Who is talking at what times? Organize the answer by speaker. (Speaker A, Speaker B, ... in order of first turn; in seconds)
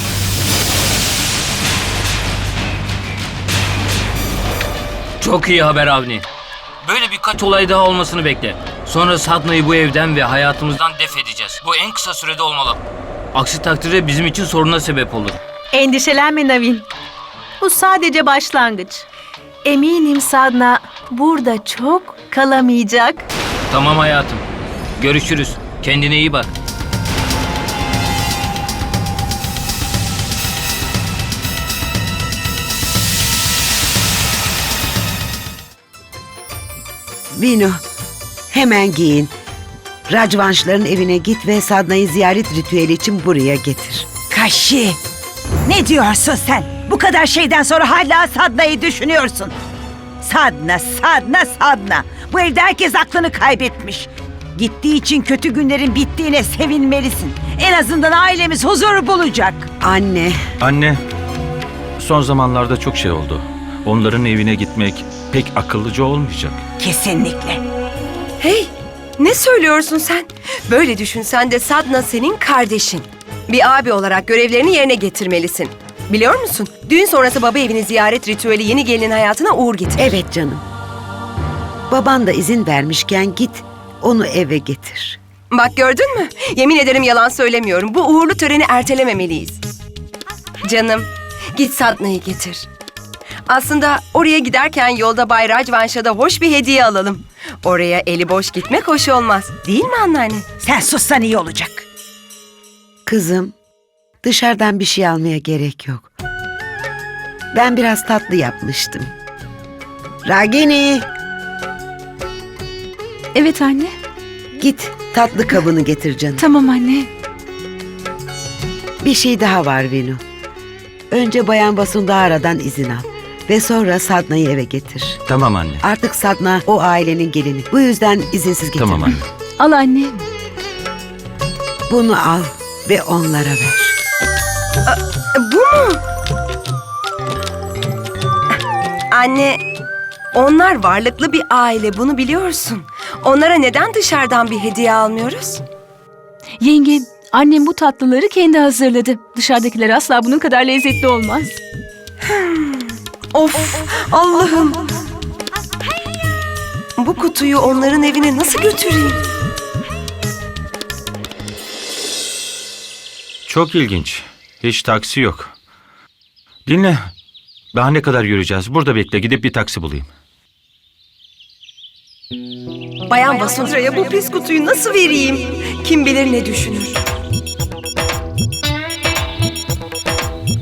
Speaker A: 5.2-6.2, 6.8-12.8, 13.3-15.4, 23.7-24.4, 25.0-26.5
Speaker B: 15.7-16.9, 17.6-19.0, 19.6-23.2
Speaker C: 37.3-37.8, 38.5-39.3, 40.1-44.1, 59.8-60.4, 80.0-80.6, 81.9-85.2, 103.0-103.5, 104.2-106.1, 107.5-109.1, 110.2-111.1, 114.6-116.5, 119.0-120.2, 121.1-125.2, 125.8-129.2, 131.9-134.0
Speaker D: 44.3-45.0, 45.6-49.5, 50.2-59.7, 66.8-67.6, 100.6-101.8
Speaker E: 60.6-61.0, 62.0-66.6, 125.3-125.8, 128.8-129.2, 163.5-165.5, 166.7-167.1, 167.7-170.1
Speaker F: 68.4-80.1, 85.5-89.6, 90.6-92.7, 93.5-100.5, 134.9-136.0, 139.1-139.6, 140.3-145.6, 152.2-154.9, 157.0-159.2, 173.1-177.0
Speaker G: 113.3-113.9, 116.4-117.1, 129.6-130.2, 146.6-151.6